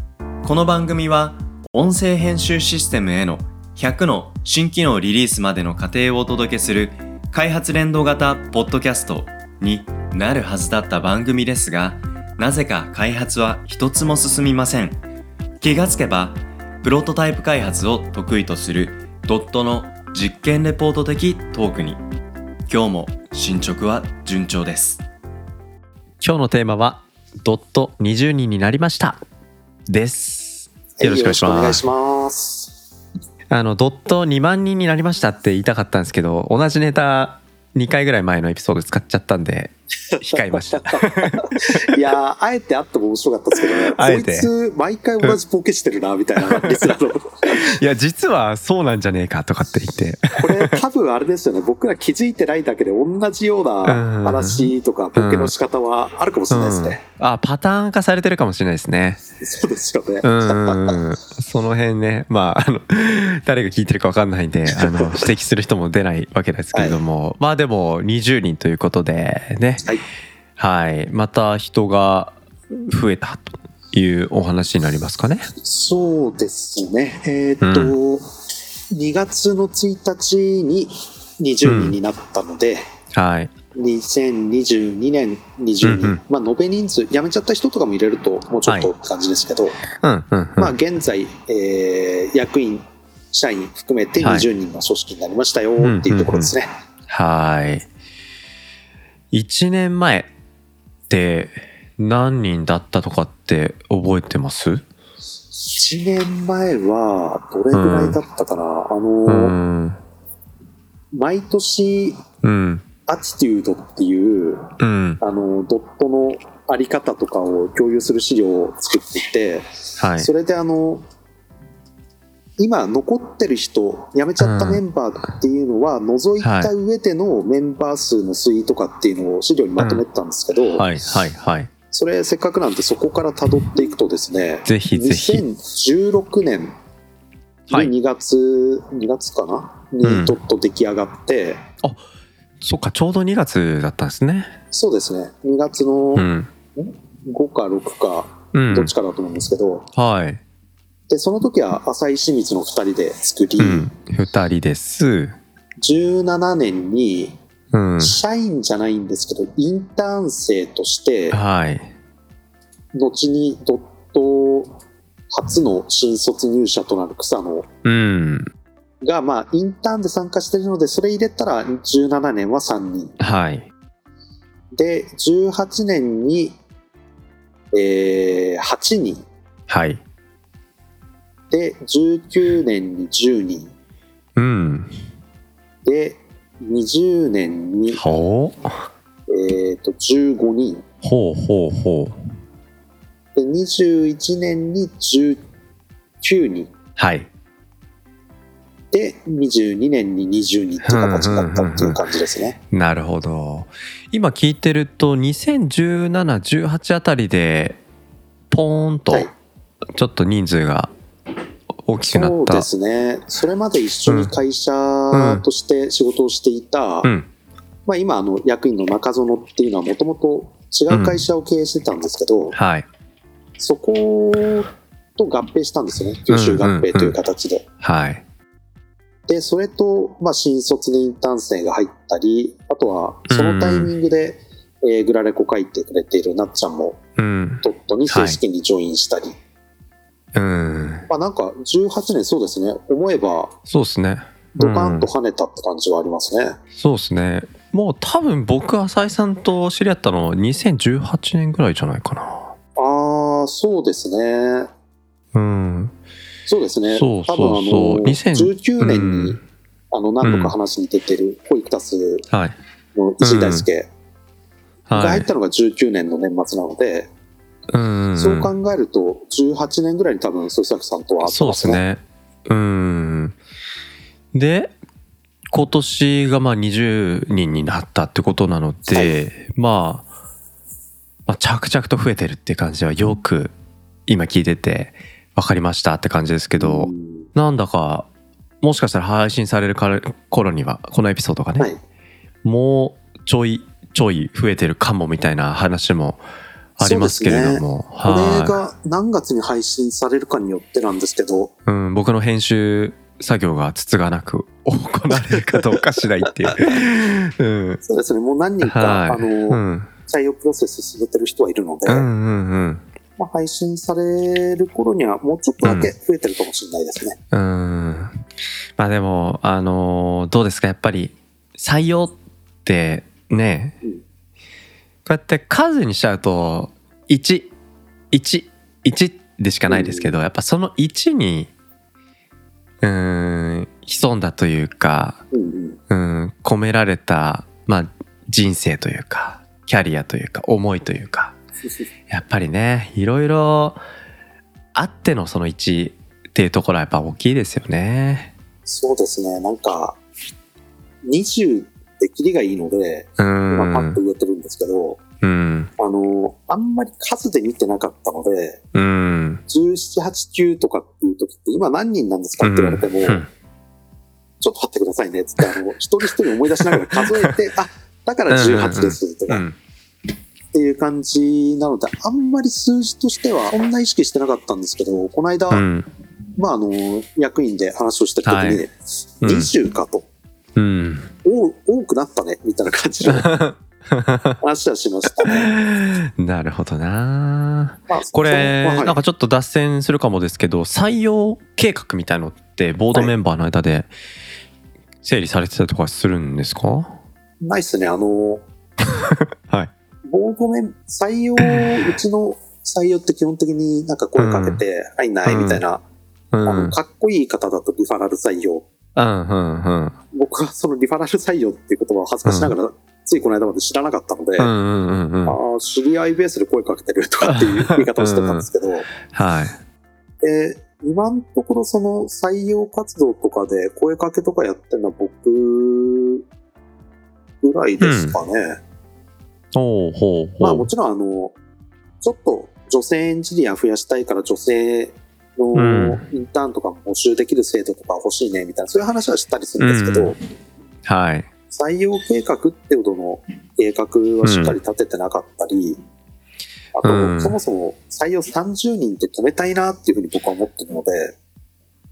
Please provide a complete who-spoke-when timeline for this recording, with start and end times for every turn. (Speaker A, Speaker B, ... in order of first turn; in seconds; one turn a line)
Speaker A: 0.4-15.0
Speaker A: 15.6-22.0
Speaker A: 22.7-25.0
Speaker B: 26.2-29.2
Speaker B: 29.9-31.8
Speaker C: 31.0-32.7
Speaker B: 33.5-42.0
Speaker C: 40.1-47.7
Speaker B: 43.6-44.5
Speaker B: 46.5-50.8
Speaker C: 50.4-57.0
Speaker B: 53.9-55.5
Speaker B: 56.5-59.2
Speaker C: 59.4-61.0
Speaker B: 60.2-69.8
Speaker C: 64.7-65.3
Speaker C: 66.7-67.0
Speaker B: 70.6-75.5
Speaker C: 75.6-78.3
Speaker B: 77.6-78.0
Speaker C: 78.9-82.8
Speaker B: 81.6-82.0
Speaker B: 83.1-83.5
Speaker C: 83.7-89.8
Speaker B: 85.8-86.2
Speaker B: 88.7-88.9
Speaker B: 90.0-90.7
Speaker C: 90.6-96.7
Speaker B: 94.2-94.5
Speaker B: 95.8-96.5
Speaker B: 97.1-97.9
Speaker B: 99.3-100.3
Speaker B: 101.1-104.8
Speaker C: 105.5-109.6
Speaker B: 107.7-108.2
Speaker B: 109.3-110.0
Speaker C: 111.1-112.2
Speaker B: 112.4-112.9
Speaker C: 113.1-119.7
Speaker B: 114.8-115.2
Speaker B: 120.0-120.3
Speaker C: 120.2-121.0
Speaker C: 122.6-130.9
Speaker B: 124.4-124.8
Speaker B: 126.4-126.7
Speaker B: 129.8-130.0
Speaker B: 130.7-131.7
Speaker C: 131.9-136.7
Speaker B: 134.7-135.4
Speaker C: 137.7-141.6
Speaker B: 140.0-140.3
Speaker B: 142.6-144.6
Speaker C: 144.7-149.9
Speaker B: 146.2-146.5
Speaker B: 148.5-148.9
Speaker B: 149.9-150.4
Speaker C: 151.1-153.9
Speaker B: 153.6-155.4
Speaker C: 155.8-157.4
Speaker B: 157.7-158.2
Speaker C: 158.0-161.4
Speaker B: 161.3-161.9
Speaker C: 162.9-164.8
Speaker C: 165.3-167.7
Speaker B: 167.8-168.5
Speaker C: 169.0-173.2
Speaker B: 173.2-173.7
Speaker C: 174.8-176.6
Speaker C: 177.7-179.2
Speaker B: 179.7-180.0
Speaker C: 181.5-183.7
Speaker B: 184.4-184.9
Speaker C: 185.8-188.0
Speaker B: 187.9-188.7
Speaker C: 189.3-190.8
Speaker B: 191.0-192.2
Speaker C: 193.3-195.4
Speaker C: 196.2-196.7
Speaker B: 197.0-197.3
Speaker C: 198.9-202.6
Speaker B: 200.8-202.0
Speaker B: 202.7-207.8
Speaker B: 208.5-209.3
Speaker B: 209.9-210.9
Speaker B: 211.8-212.7
Speaker C: 212.1-217.1
Speaker B: 214.1-214.3
Speaker B: 215.1-215.4
Speaker C: 217.9-222.6
Speaker B: 220.9-221.2
Speaker B: 222.5-222.9
Speaker C: 223.6-227.7
Speaker B: 226.3-227.2
Speaker B: 227.8-228.2
Speaker C: 229.3-237.0
Speaker B: 233.3-233.9
Speaker B: 237.2-238.4
Speaker C: 237.6-239.4
Speaker B: 240.3-241.1
Speaker C: 241.1-243.6
Speaker B: 243.7-245.1
Speaker C: 244.6-246.6
Speaker B: 246.8-252.5
Speaker C: 252.8-254.7
Speaker B: 255.3-255.9
Speaker C: 256.5-262.3
Speaker B: 256.9-259.4
Speaker B: 260.2-260.5
Speaker B: 262.3-262.6
Speaker C: 262.9-263.9
Speaker B: 263.2-263.7
Speaker B: 264.9-265.3
Speaker C: 264.9-267.1
Speaker B: 267.7-268.5
Speaker C: 268.2-271.8
Speaker B: 271.2-273.4
Speaker B: 274.3-274.7
Speaker B: 275.5-280.1
Speaker C: 278.9-279.2
Speaker B: 281.3-283.5
Speaker B: 284.1-288.1
Speaker C: 286.6-287.3
Speaker B: 288.6-291.7
Speaker B: 292.4-296.2
Speaker B: 296.8-298.6
Speaker C: 296.8-301.5
Speaker B: 301.7-307.8
Speaker C: 305.5-305.8
Speaker C: 307.8-312.1
Speaker B: 308.6-309.9
Speaker B: 311.9-312.8
Speaker C: 313.2-317.2
Speaker B: 315.6-315.9
Speaker B: 317.3-318.2
Speaker B: 318.8-323.8
Speaker B: 325.1-327.5
Speaker B: 328.1-331.5
Speaker C: 329.7-330.1
Speaker B: 332.8-335.2
Speaker C: 335.3-335.8
Speaker B: 335.9-341.4
Speaker B: 342.1-343.8
Speaker B: 344.8-348.3
Speaker C: 348.7-350.0
Speaker C: 351.0-355.0
Speaker B: 353.2-354.0
Speaker B: 355.2-355.7
Speaker C: 355.8-358.6
Speaker B: 358.7-359.4
Speaker C: 359.5-363.2
Speaker B: 362.4-363.3
Speaker C: 364.4-369.4
Speaker B: 366.5-367.3
Speaker B: 368.3-369.6
Speaker C: 370.5-375.7
Speaker B: 375.5-375.9
Speaker C: 376.4-380.1
Speaker B: 378.3-378.6
Speaker B: 379.2-379.5
Speaker B: 380.6-381.1
Speaker C: 381.2-383.3
Speaker B: 383.1-384.4
Speaker C: 384.4-385.5
Speaker B: 385.1-393.9
Speaker C: 387.9-389.0
Speaker B: 395.0-397.0
Speaker C: 397.4-398.4
Speaker B: 398.9-399.7
Speaker C: 400.1-405.8
Speaker B: 401.4-401.9
Speaker B: 404.2-404.6
Speaker B: 405.3-405.6
Speaker B: 406.3-406.8
Speaker C: 406.4-408.7
Speaker B: 408.9-410.0
Speaker C: 410.1-414.5
Speaker B: 412.2-412.5
Speaker B: 414.4-415.4
Speaker C: 415.2-418.9
Speaker B: 417.2-418.5
Speaker B: 419.1-419.6
Speaker C: 420.2-426.2
Speaker C: 427.4-428.6
Speaker B: 427.8-428.2
Speaker B: 429.5-430.7
Speaker C: 430.4-431.4
Speaker C: 432.0-440.2
Speaker B: 435.6-436.0
Speaker B: 439.6-440.1
Speaker B: 440.9-441.3
Speaker C: 441.5-445.8
Speaker B: 444.2-444.6
Speaker C: 446.8-451.1
Speaker B: 446.8-447.4